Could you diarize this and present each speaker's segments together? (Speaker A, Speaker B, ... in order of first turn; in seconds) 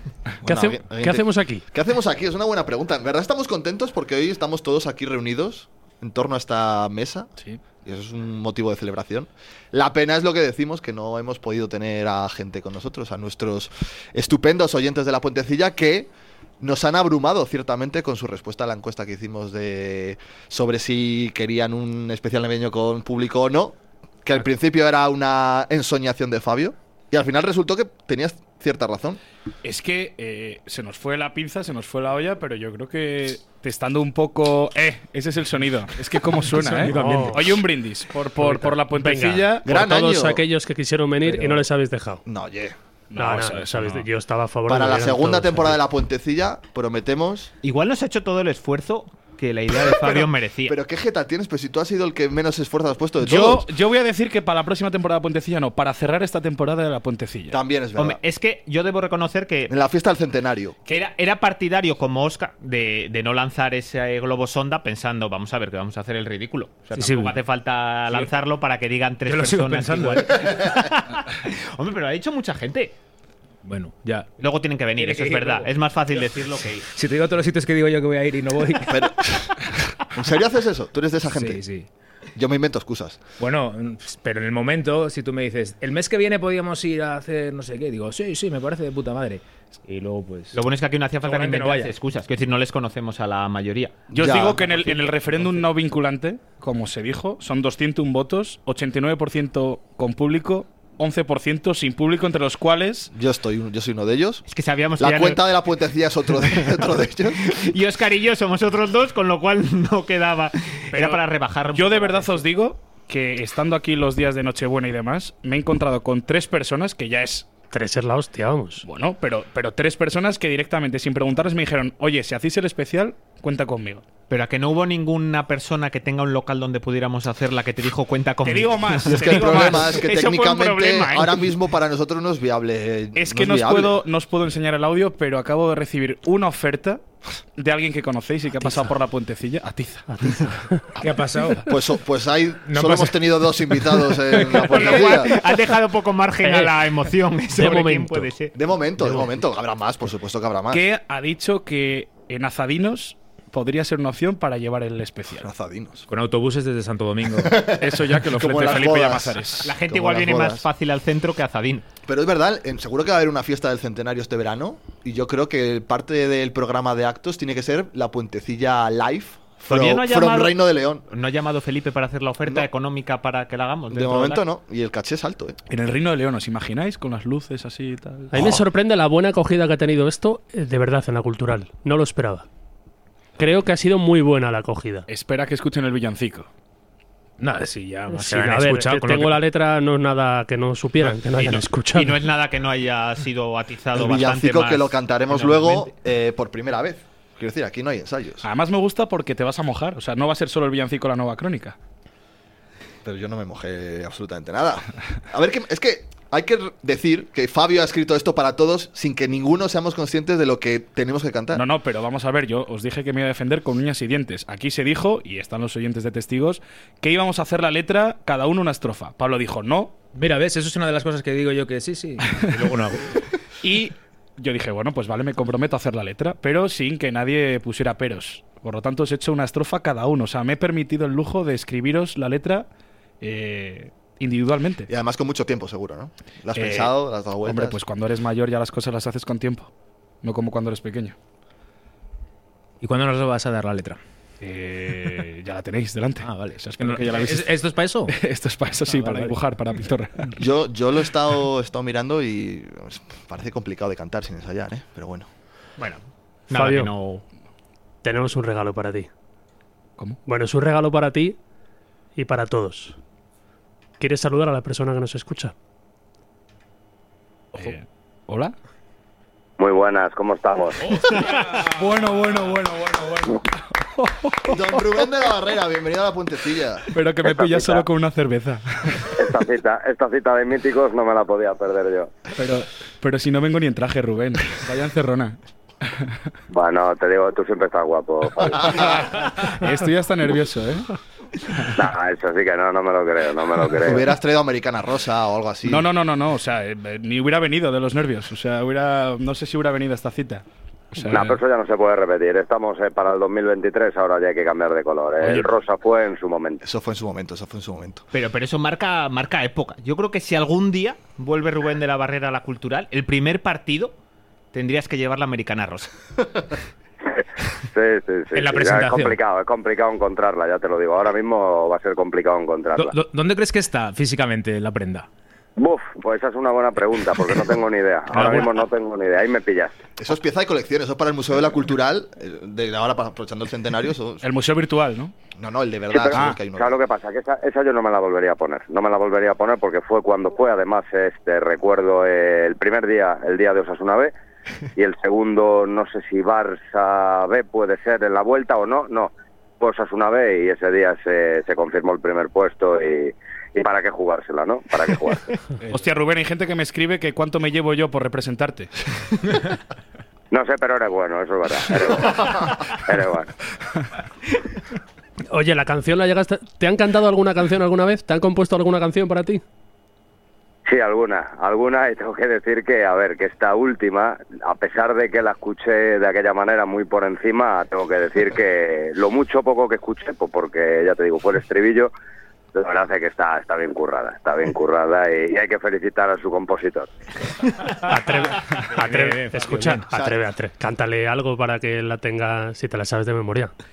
Speaker A: 0.4-7.3, 7.8-29.2, 39.6-40.4, 42.3-42.8, 44.7-47.5, 49.8-53.7, 57.5-58.2, 59.7-60.8, 78.8-79.5, 80.1-81.6, 82.3-83.2, 94.1-94.8, 103.1-104.4, 105.0-107.5, 129.1-134.0, 141.7-145.3, 148.5-150.8, 155.4-156.0, 157.3-160.7, 162.1-171.1, 173.9-175.6, 193.9-198.4, 203.0-211.6, 234.9-237.8, 250.4-255.3, 274.5-276.9, 293.8-295.9, 306.6-308.0, 330.0-334.2, 335.4-336.8, 389.9-390.2
Speaker B: 0.5-1.6, 36.9-37.6, 38.2-42.2, 43.1-45.7, 117.7-118.8, 140.1-140.8, 146.4-146.7, 147.5-148.3, 178.3-182.4, 183.4-185.1, 188.1-192.2, 256.5-256.9, 258.0-259.1, 260.2-261.4, 262.1-263.0, 264.0-265.5, 365.3-369.4, 387.9-393.5
Speaker C: 29.6-39.7, 43.1-44.1, 53.2-57.6, 94.1-103.1, 110.9-117.5, 118.8-124.0, 128.4-131.4, 133.1-140.5, 150.7-155.5, 157.8-159.7, 175.7-178.6, 185.1-186.5, 198.4-201.8, 211.5-219.9, 223.6-232.7, 233.2-234.9, 236.5-239.7, 240.2-241.2, 244.4-247.6, 248.1-250.4, 267.5-268.5, 271.6-274.6, 276.9-279.1, 282.3-285.4, 289.1-290.9, 295.7-301.4, 305.2-305.5, 334.2-335.1, 355.6-358.7
Speaker D: 36.6-37.2, 41.2-41.6, 66.9-67.4, 68.1-68.3, 69.2-70.7, 73.6-74.3, 74.9-79.1, 81.2-81.9, 83.4-90.6, 91.2-91.9, 141.0-141.7, 142.7-145.8, 156.1-157.7, 187.4-189.4, 220.1-223.2, 242.8-244.0, 246.2-248.1, 248.9-249.4, 318.3-319.2, 322.8-325.1, 328.1-328.4, 388.8-389.9
Speaker E: 47.6-50.7, 58.0-59.7, 60.9-72.9, 74.4-76.8, 90.5-94.0, 104.5-105.5, 107.4-112.4, 124.3-130.7, 144.5-148.5, 159.6-161.8, 169.7-170.6, 171.1-174.4, 191.3-195.9, 255.8-257.2, 308.1-313.9, 314.5-315.9
Speaker F: 269.6-271.0, 277.2-277.8, 279.1-282.1, 286.5-289.1, 291.7-294.0, 301.1-306.6, 317.7-322.9, 325.6-329.8, 335.9-344.1, 344.8-355.3, 360.3-363.3, 370.6-381.9, 382.5-386.9